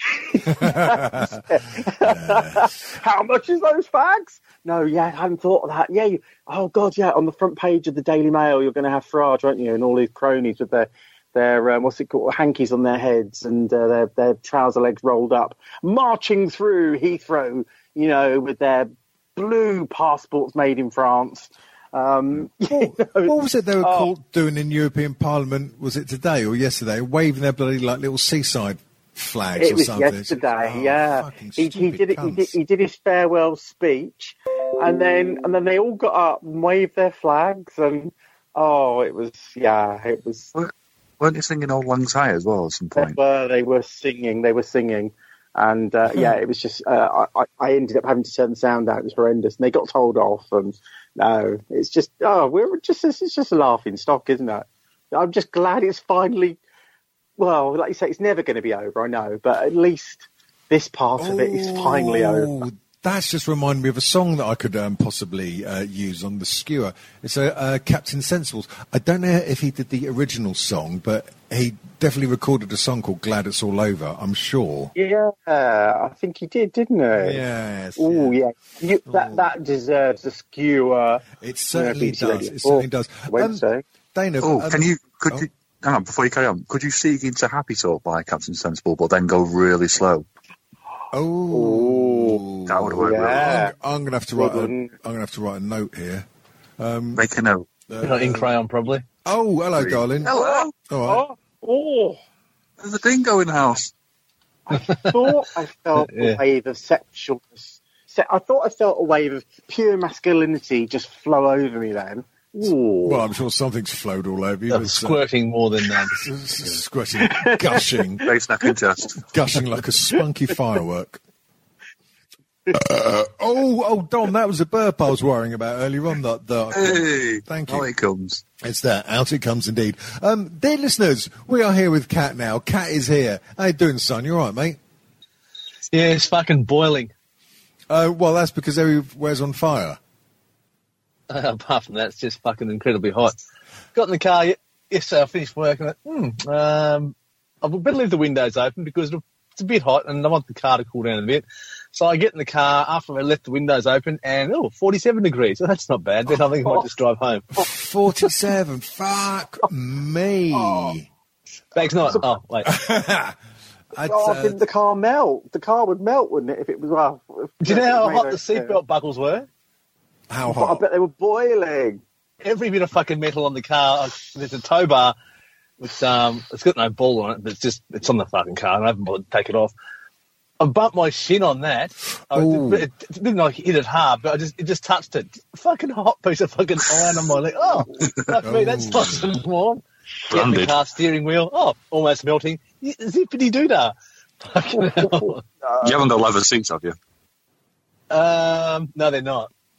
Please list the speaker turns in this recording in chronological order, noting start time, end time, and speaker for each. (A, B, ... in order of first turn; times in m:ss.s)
0:00.1-0:24.1 A
0:00.5-0:02.9 B
0:22.4-0:32.6 B
0:29.6-0:40.5 A
0:40.6-0:43.2 C
0:43.0-0:56.6 A
0:57.4-1:02.6 A
1:01.2-1:14.9 B
1:15.0-1:17.4 A
1:17.1-1:18.4 B
1:18.0-1:23.8 A
1:19.1-1:19.5 B
1:21.4-1:23.6 B
1:24.1-1:25.5 B
1:24.4-1:30.3 C
1:31.1-1:36.3 B
1:31.5-1:32.4 A
1:32.7-1:33.6 C
1:33.0-1:33.7 A
1:34.4-1:34.9 A
1:36.8-1:37.2 B
1:37.2-1:37.7 C
1:37.9-1:38.5 B
1:38.0-1:39.0 D
1:39.2-1:40.3 B
1:39.8-1:40.7 C
1:40.3-1:42.2 A
1:40.9-1:41.2 B
1:42.8-1:43.9 C
1:44.7-1:53.2 A
1:44.8-1:45.1 D
1:46.0-1:46.4 D
1:53.0-1:55.2 B
1:54.7-1:56.1 D
1:56.1-1:58.2 B
1:57.2-1:58.3 A
1:58.2-1:59.2 C
1:59.2-2:01.2 B
2:02.7-2:07.9 B
2:06.7-2:08.4 C
2:08.6-2:14.8 B
2:15.9-2:17.1 D
2:17.9-2:20.0 B
2:21.3-2:23.4 D
2:24.0-2:37.5 D
2:37.6-2:41.1 B
2:40.5-2:41.0 A
2:41.8-2:42.7 D
2:41.8-2:43.4 B
2:43.9-2:44.6 B
2:44.0-2:48.8 A
2:47.6-2:49.5 D
2:50.3-2:50.8 B
2:50.5-2:52.0 A
2:52.4-2:55.2 D
2:55.8-2:59.7 D
3:00.6-3:15.4 D
3:02.3-3:02.9 B
3:08.4-3:09.2 B
3:10.3-3:10.8 C
3:15.8-3:17.0 C
3:18.1-3:19.5 D